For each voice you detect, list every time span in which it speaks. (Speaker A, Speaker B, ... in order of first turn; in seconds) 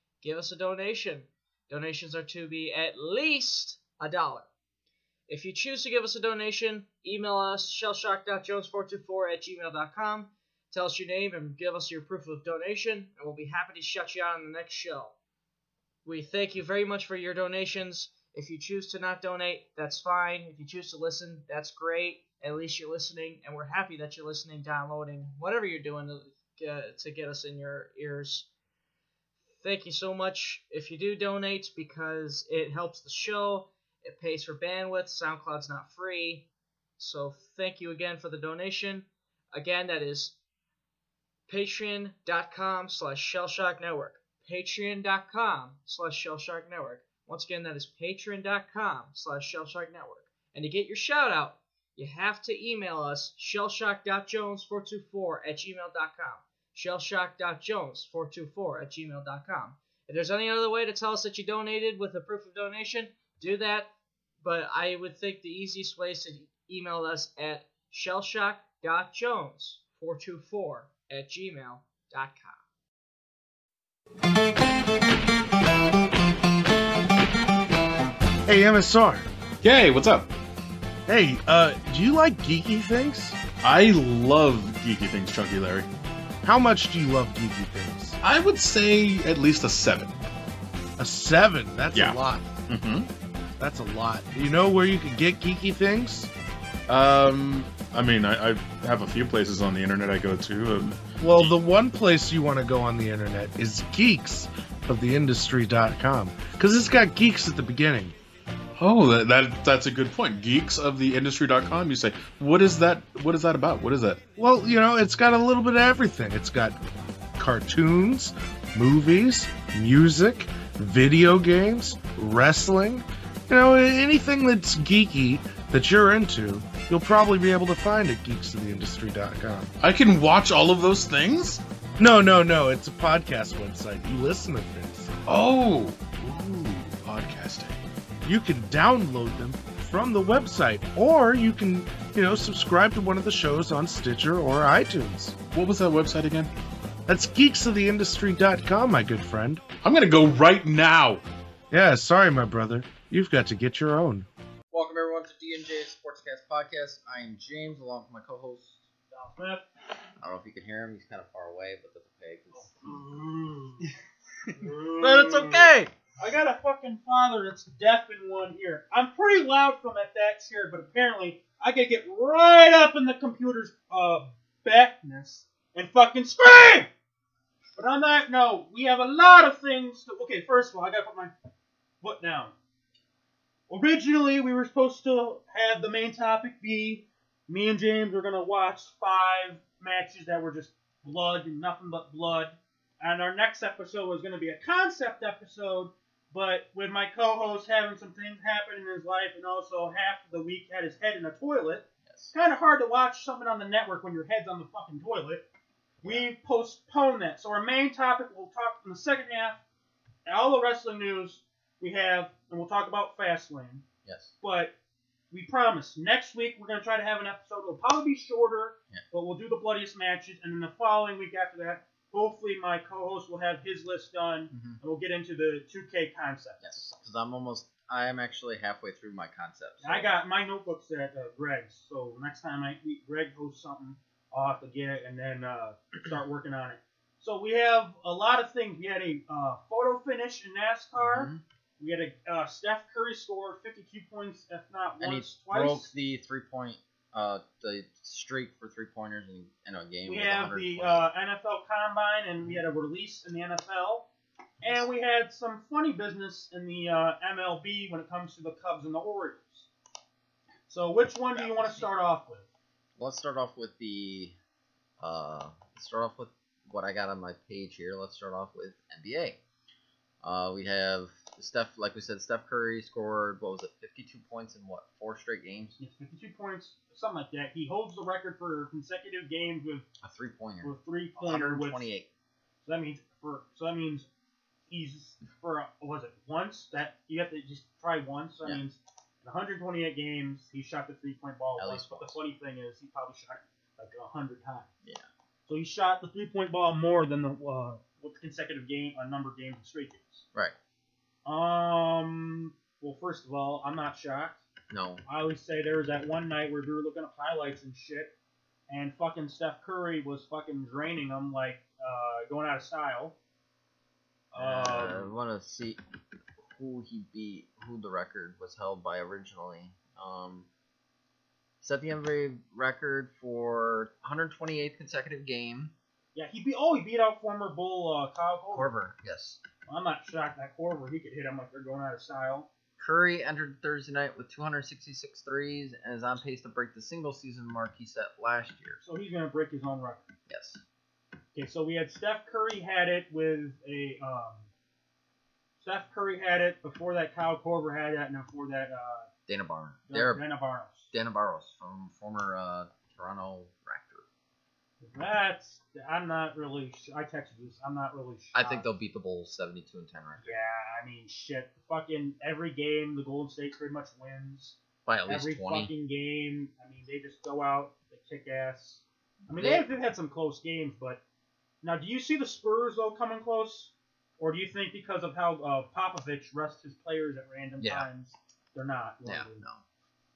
Speaker A: 0.2-4.5, 5.3-15.1, 16.0-28.5, 29.6-36.4, 37.0-40.3, 41.5-63.9, 64.4-72.6
Speaker B: 78.5-79.3, 81.1-83.4, 86.4-88.2, 91.0-92.5, 93.6-96.3, 101.2-108.2, 114.3-116.8, 117.4-129.7, 132.0-135.1, 138.2-145.3, 147.1-149.6, 151.7-154.2
Speaker C: 79.6-80.3, 83.6-85.9, 88.2-90.1, 92.7-93.1, 96.9-101.5, 108.8-114.2, 129.8-131.6, 135.2-137.8, 145.5-146.5, 149.8-151.2
Speaker D: 154.7-158.8, 160.2-163.0, 164.5-165.9, 202.1-202.3, 214.0-214.3, 224.5-224.8, 226.6-230.1, 240.9-241.4, 245.0-251.0, 261.3-261.9, 263.0-264.3, 265.0-269.4, 270.2-275.8, 280.0-282.1, 291.6-292.2, 304.7-305.0, 314.4-315.8, 316.5-320.5, 321.6-325.7, 328.5-329.4, 332.8-338.8, 340.3-340.6, 349.3-350.2, 350.9-354.0, 358.3-360.3, 364.8-365.7, 369.3-369.7, 377.6-377.9, 379.0-379.6
Speaker E: 159.1-159.6, 162.5-163.8, 164.6-176.9, 177.8-181.3, 182.0-182.5, 183.7-205.4, 206.0-209.6, 210.2-213.8, 214.4-214.7, 215.3-226.9, 229.8-245.9, 250.1-254.1, 254.6-259.7, 260.7-262.5, 275.8-279.9, 280.6-281.9, 282.6-284.1, 284.7-294.7, 295.4-300.2, 301.2-304.4, 305.1-308.1, 308.7-313.1, 314.3-315.1, 326.1-328.7, 329.6-332.5, 338.8-340.1, 341.3-344.5, 345.6-349.1, 349.9-350.9, 354.8-358.7, 360.2-371.0, 371.6-379.4